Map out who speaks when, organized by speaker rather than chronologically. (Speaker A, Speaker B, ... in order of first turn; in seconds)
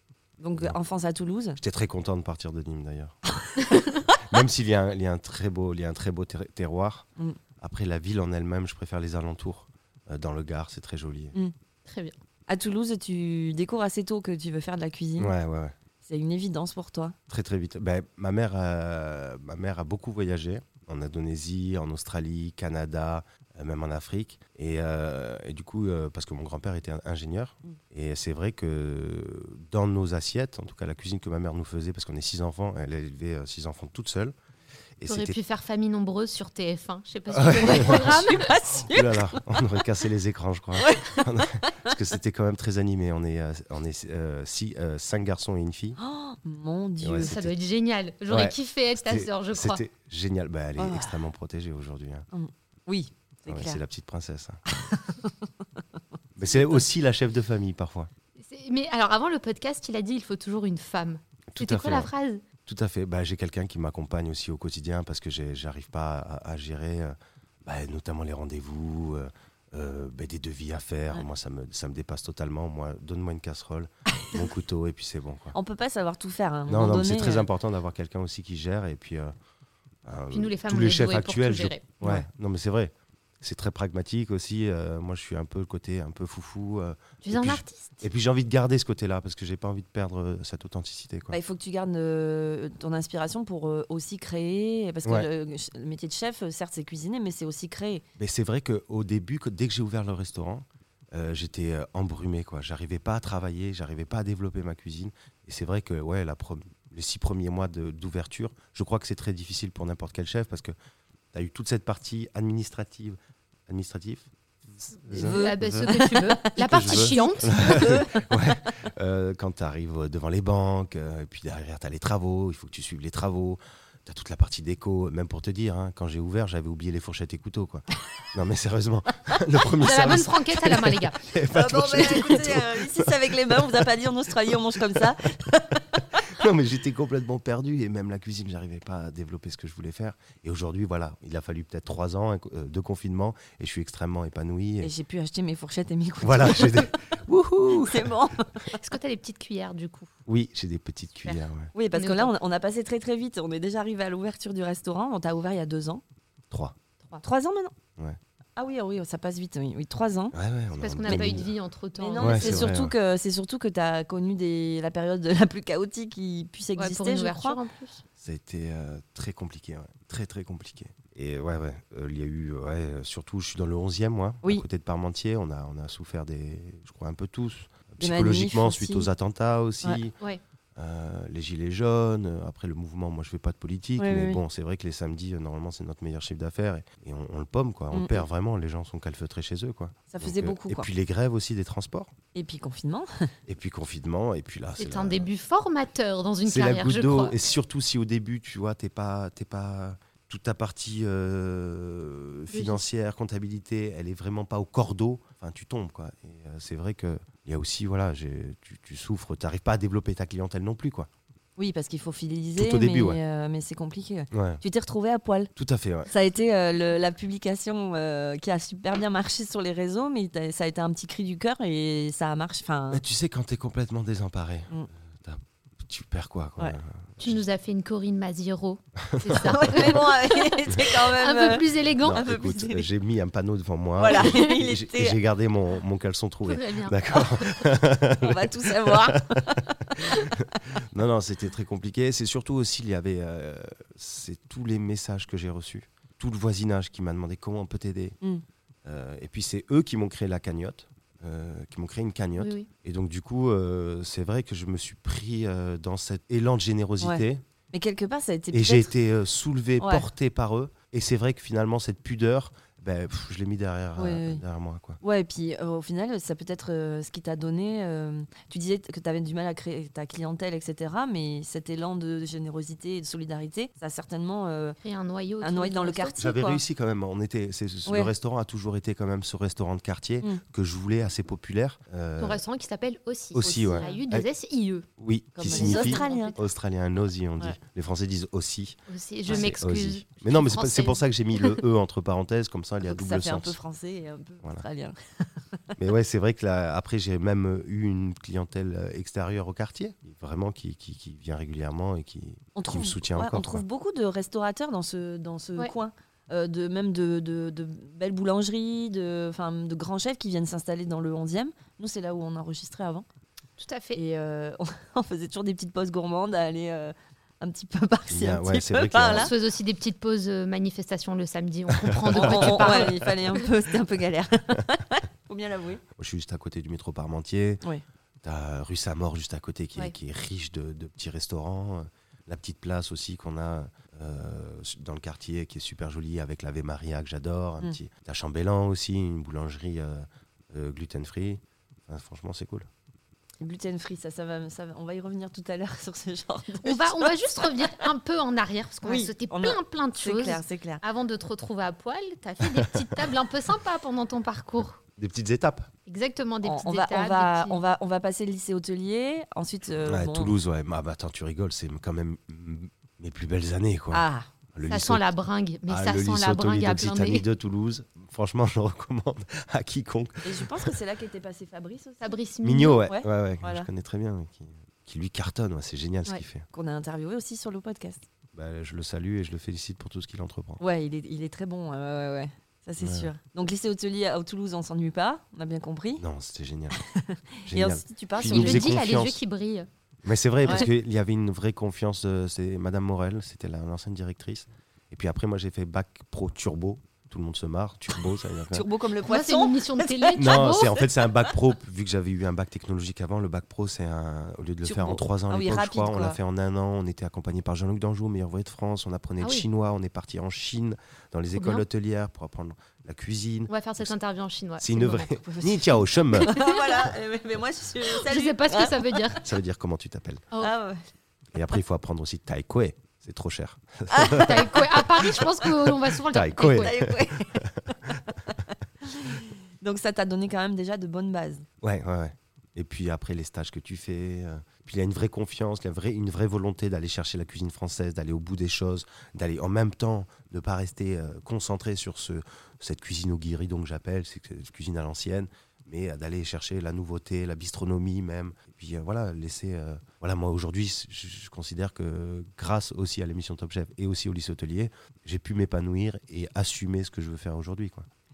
Speaker A: 0.4-1.6, 3.4-4.1, 12.5-15.3, 16.0-17.1, 37.6-39.6, 40.8-41.9, 46.0-47.3, 50.8-51.2, 52.3-53.8, 54.7-55.5, 56.5-56.8, 75.5-77.5, 82.0-82.3, 91.3-98.0, 115.1-118.6, 131.5-136.2, 144.8-147.0, 147.8-148.8, 151.7-156.0, 157.2-157.7, 158.6-160.3, 161.1-161.3, 162.0-167.6, 178.0-179.1, 184.0-184.4, 187.9-188.2, 190.1-190.9, 192.3-193.3, 211.6-215.5, 216.1-223.0, 229.3-232.9, 234.0-235.2, 238.2-240.4, 257.0-258.9, 259.8-260.1, 263.9-264.4, 265.0-274.8, 275.4-276.6, 277.9-278.1, 283.5-284.0, 285.4-286.4, 292.8-295.6, 302.5-313.1, 313.9-319.3, 322.1-325.8, 343.4-347.8, 348.8-350.8, 356.4-360.3, 363.9-364.3, 370.2-372.1, 372.9-373.7, 376.5-378.0, 380.6-386.0, 386.8-388.8, 398.5-400.8, 404.6-406.2, 415.2-419.1, 420.4-420.8, 423.9-424.8, 426.4-431.4
Speaker B: 1.6-3.2, 4.1-7.1, 7.6-11.3, 15.2-15.8, 17.3-34.3, 35.0-35.4, 37.3-46.0, 47.0-47.5, 48.3-52.3, 53.5-54.6, 56.4-58.1, 61.5-62.1, 62.6-75.5, 76.7-79.3, 80.0-91.4, 95.0-95.3, 98.2-110.7, 111.3-115.9, 116.5-133.9, 134.4-135.1, 136.2-144.9, 146.2-148.2, 150.3-151.7, 156.5-156.8, 160.3-161.5, 162.2-162.9, 168.2-180.2, 180.8-192.1, 193.4-195.3, 196.4-211.1, 212.6-213.2, 214.3-214.6, 215.6-216.1, 222.9-227.4, 229.0-229.9, 232.0-248.2, 248.8-257.4, 258.5-265.0, 276.2-282.4, 283.4-284.2, 285.0-288.8, 289.3-293.6, 295.8-303.6, 318.1-319.3, 321.8-323.1, 325.9-327.6, 328.2-342.7, 352.4-352.9, 355.0-355.7, 359.8-365.1, 365.7-370.7, 372.4-376.5, 378.3-380.6, 382.8-383.1, 386.0-386.8, 387.4-389.2, 390.0-398.6, 400.1-413.9, 414.6-416.4, 419.2-420.3, 421.3-425.2, 426.0-428.0, 431.6-457.9
Speaker C: 11.8-12.2, 35.1-38.5, 47.2-49.8, 58.4-62.4, 80.3-81.8, 87.2-88.0, 115.1-117.9, 129.8-131.2, 148.7-150.1, 151.9-152.3, 160.8-162.7, 166.8-168.0, 194.8-197.4, 202.5-202.8, 227.2-232.3, 234.1-234.5, 236.4-237.5, 252.4-252.7, 274.8-276.1, 282.2-284.9, 285.4-286.5, 288.9-291.6, 313.6-314.0, 319.1-323.4, 346.6-354.8, 355.9-357.6, 364.6-367.2, 372.0-372.9, 388.2-389.7, 399.0-400.8, 409.2-409.4, 411.3-411.6, 413.5-415.2, 416.3-416.6, 417.9-419.2, 424.2-426.7